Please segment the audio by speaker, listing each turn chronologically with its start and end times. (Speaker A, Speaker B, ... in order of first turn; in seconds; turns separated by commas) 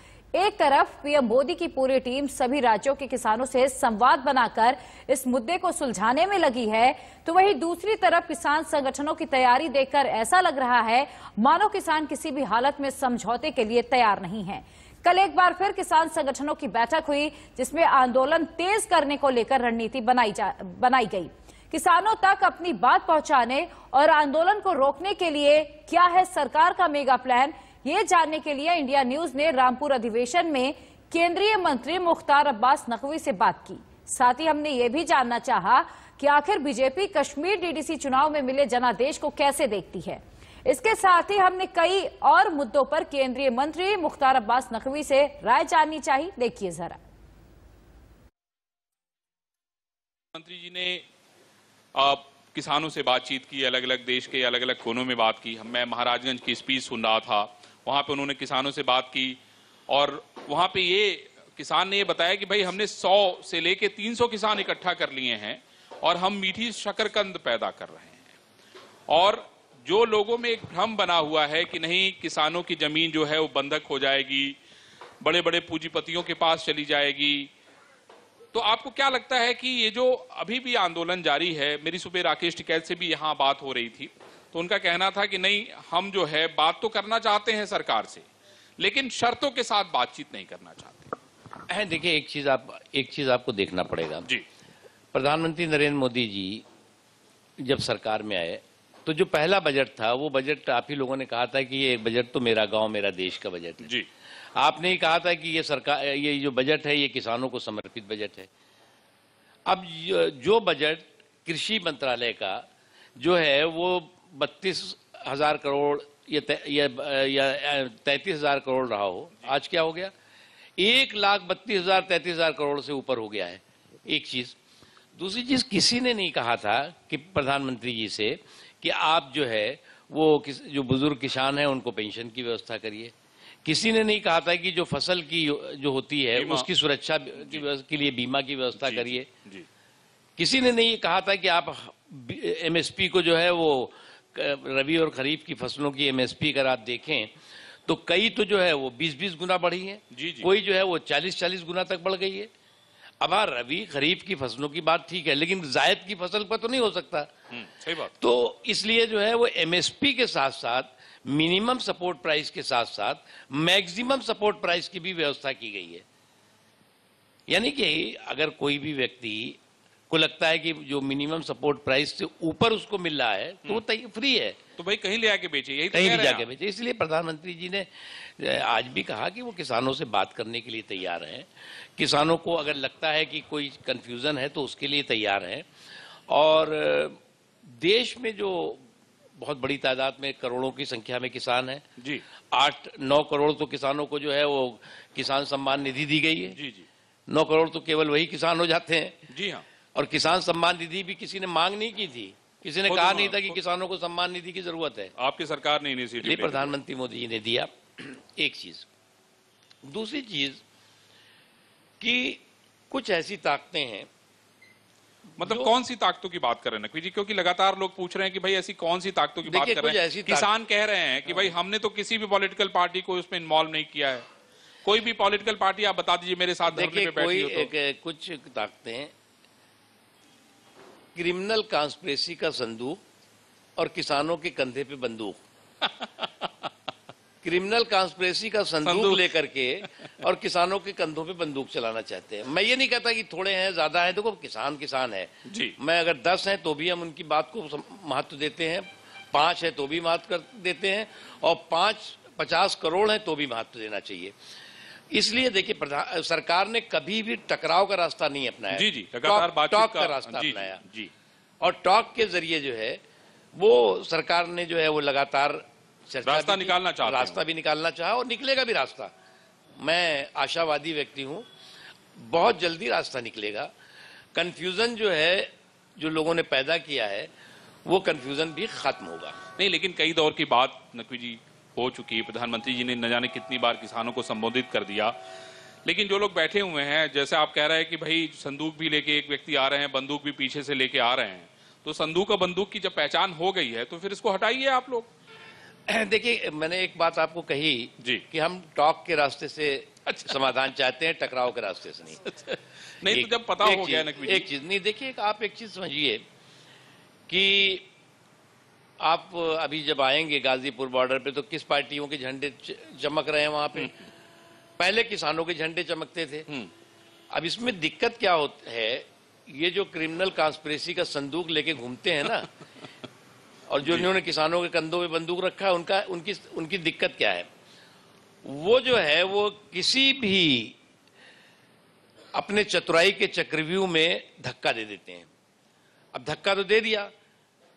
Speaker A: 0.3-47.0, Speaker B: 50.3-51.0, Speaker B: 52.0-68.3, Speaker B: 69.1-74.6, Speaker B: 75.2-77.5, Speaker B: 78.5-91.2, Speaker C: 91.7-94.3, Speaker C: 95.1-96.7, Speaker C: 97.6-103.9, Speaker C: 104.6-108.5, Speaker C: 109.7-112.7, Speaker C: 113.2-120.1, Speaker C: 120.8-124.6, Speaker C: 125.2-133.1, Speaker C: 133.7-139.3, Speaker B: 136.4-136.7, Speaker B: 137.4-137.6, Speaker B: 138.8-139.7, Speaker C: 140.4-147.3, Speaker C: 147.9-152.5, Speaker B: 150.1-150.5, Speaker C: 153.2-157.3, Speaker B: 157.5-158.1, Speaker C: 158.2-166.0, Speaker C: 167.5-169.6, Speaker C: 170.1-174.6, Speaker B: 174.8-176.5, Speaker C: 175.9-185.7, Speaker C: 186.3-188.8, Speaker C: 189.4-191.8, Speaker B: 192.0-192.2, Speaker C: 192.5-196.6, Speaker B: 196.6-196.9, Speaker C: 197.3-199.2, Speaker B: 199.3-199.7, Speaker C: 199.9-205.1, Speaker B: 202.9-203.6, Speaker B: 205.2-206.8, Speaker C: 206.2-208.9, Speaker C: 209.8-210.6, Speaker C: 212.0-214.1, Speaker B: 215.4-224.3, Speaker C: 215.4-215.7, Speaker C: 219.4-220.5, Speaker C: 221.3-221.5, Speaker B: 224.8-227.7, Speaker C: 226.7-229.1, Speaker C: 231.2-233.0, Speaker C: 233.8-235.4, Speaker B: 235.8-236.5, Speaker C: 237.4-254.3, Speaker B: 238.8-239.3, Speaker B: 245.5-245.8, Speaker C: 255.1-260.8, Speaker B: 258.7-261.1, Speaker C: 261.6-263.0, Speaker C: 263.6-269.1, Speaker B: 266.2-267.4, Speaker C: 269.8-271.5, Speaker C: 272.2-273.7, Speaker C: 274.4-277.3, Speaker C: 277.9-279.4, Speaker B: 279.6-285.2, Speaker B: 285.9-295.1, Speaker C: 295.9-302.2, Speaker B: 300.1-300.5, Speaker B: 302.3-304.5, Speaker C: 303.1-306.2, Speaker C: 307.3-307.9, Speaker C: 309.0-313.9, Speaker C: 314.8-316.5, Speaker C: 317.3-322.5, Speaker C: 323.7-327.5, Speaker B: 323.8-324.1, Speaker C: 328.4-330.8, Speaker C: 332.3-335.3, Speaker C: 336.1-337.1